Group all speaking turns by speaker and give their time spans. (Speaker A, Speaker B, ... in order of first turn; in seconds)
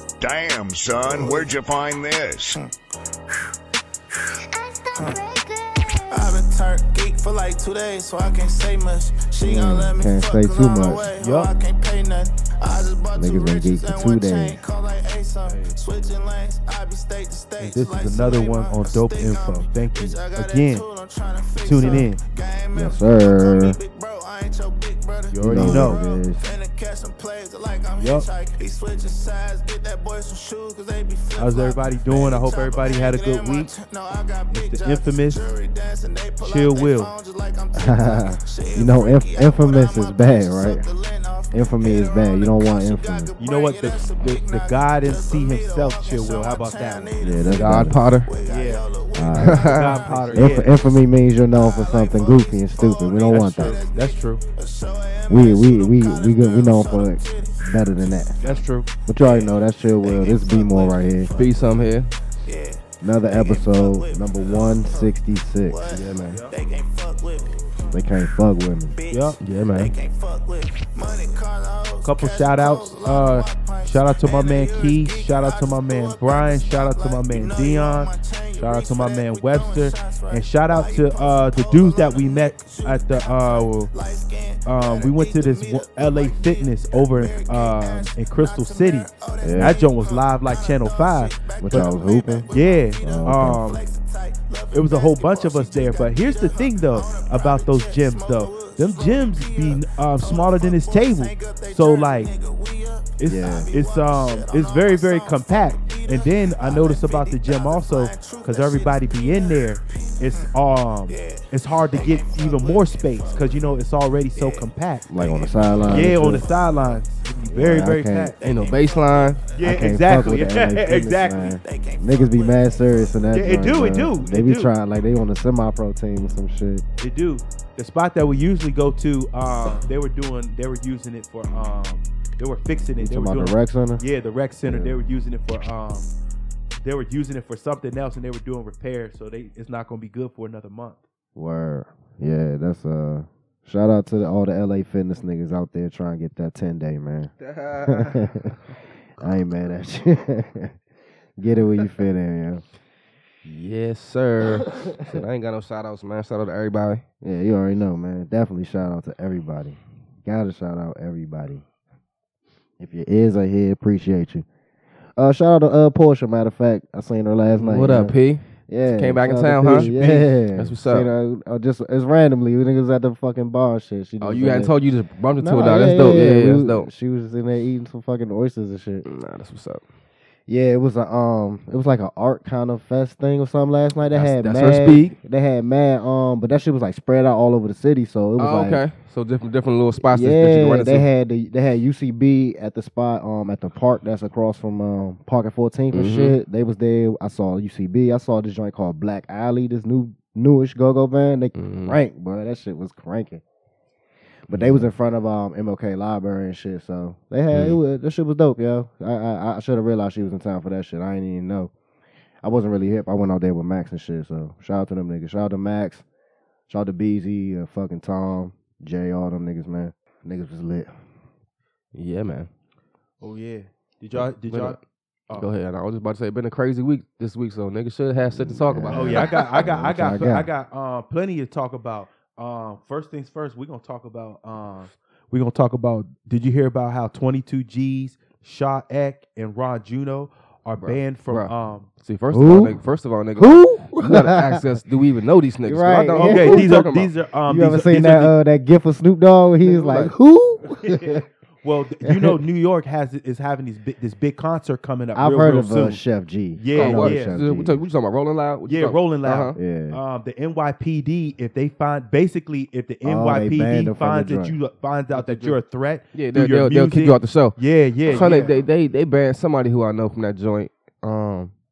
Speaker A: 0.2-2.7
Speaker B: 6.1-51.0, 51.5-61.8, 62.5-68.3, 68.9-110.5, 111.1-113.7, 114.4-117.0, 118.4-119.9, 121.6-123.2
Speaker C: 9.4-11.1, 13.2-14.6, 22.7-23.8, 25.4-26.5, 37.8-40.8, 41.5-43.3, 47.2-48.0, 49.1-49.7, 50.3-53.8, 55.3-58.4, 59.1-61.4, 63.0-65.8, 67.9-69.0, 89.4-89.8, 91.6-92.5, 93.0-93.6, 103.3-103.7, 115.1-116.5, 117.5-118.3, 119.6-126.8, 133.0-134.0, 134.7-134.9, 141.4-147.3, 147.9-148.6, 149.2-150.7, 151.4-152.6, 154.7-155.2, 157.2-161.6, 162.8-164.5, 165.2-168.1, 168.7-174.7, 175.4-179.1, 180.5-188.8, 190.0-203.4, 204.5-211.7, 212.4-216.0, 216.7-220.9, 228.3-230.5, 242.3-242.8, 243.4-244.6, 245.7-246.9, 247.5-251.2, 252.0-252.4, 255.2-257.8, 259.6-260.0, 263.0-264.5
Speaker D: 11.2-11.5, 15.4-15.8, 17.6-20.9, 21.6-22.2, 25.3-26.0, 28.0-28.3, 31.4-33.7, 34.5-35.4, 36.4-37.1, 43.4-47.2, 48.4-50.7, 53.3-54.4, 58.4-58.9, 66.2-66.5, 69.1-69.4, 72.0-83.9, 84.7-91.9, 92.5-93.8, 94.7-102.3, 103.2-118.4, 119.6-121.6, 123.3-124.7, 127.0-136.1, 136.8-141.0, 169.7-170.3, 223.2-225.5, 228.9-241.9, 246.2-248.3, 250.8-256.0, 256.6-257.4, 258.7-268.6
Speaker E: 47.5-48.3, 49.4-50.4, 61.4-62.1, 65.9-66.4, 69.4-69.9, 118.4-119.4, 147.4-148.3, 153.4-157.0, 167.6-169.9, 170.6-171.1, 174.2-176.9, 179.1-179.8, 184.1-185.2, 188.4-191.1, 195.9-196.4, 201.6-202.0, 204.5-204.9, 207.5-207.8, 221.9-222.5, 224.5-224.8, 225.3-229.3, 240.8-241.5, 242.0-247.1, 249.6-250.1, 256.7-259.6, 265.1-265.6, 266.1-267.6, 268.1-271.5